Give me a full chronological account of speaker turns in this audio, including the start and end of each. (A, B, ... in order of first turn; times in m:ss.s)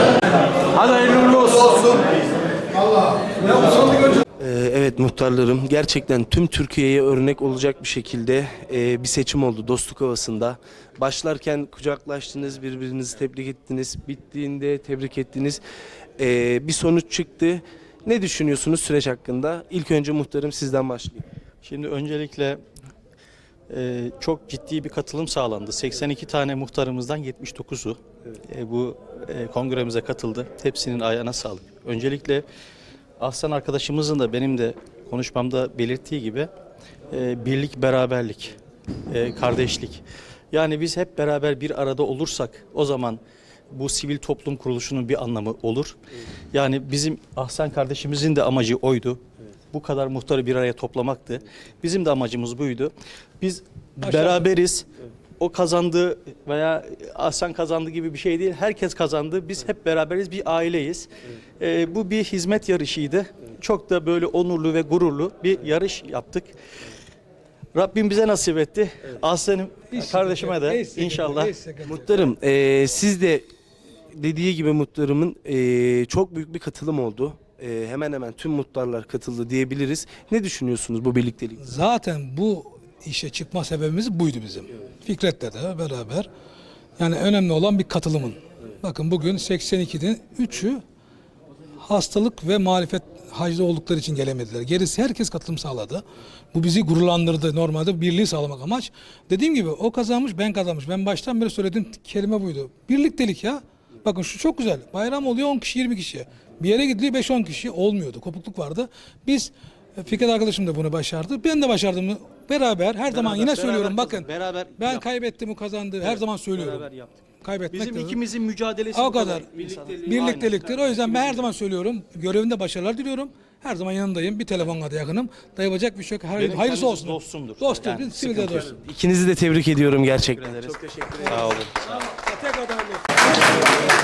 0:00.8-0:02.0 A
0:04.4-0:15.6 A
0:16.2-0:21.2 A
0:21.6-0:22.6 B
0:23.7-0:28.0 B
0:28.5-0:32.4 B
0:33.2-0:36.5 B
0:37.1-0:38.6 B
0:39.1-0:43.2 B
0:43.7-0:46.0 B
0:46.5-0:49.2 B
0:49.7-0:54.9 B
0:54.0-0:54.5 C
0:55.4-1:01.1 B
1:01.6-1:06.5 B
1:07.8-1:11.5 B
1:09.9-1:12.3 C
1:11.9-1:13.4 A
1:14.1-1:21.7 A
1:21.6-1:26.3 C
1:27.0-1:30.8 C
1:31.8-1:56.9 C
1:53.1-1:55.0 B
1:56.0-1:57.2 B
1:57.4-1:58.2 C
1:57.7-2:00.7 B
1:58.9-1:59.5 C
1:59.6-2:00.0 A
2:00.0-2:08.7 C
2:00.8-2:01.3 A
2:06.4-2:08.7 B
2:08.6-2:11.5 A
2:10.3-2:11.8 B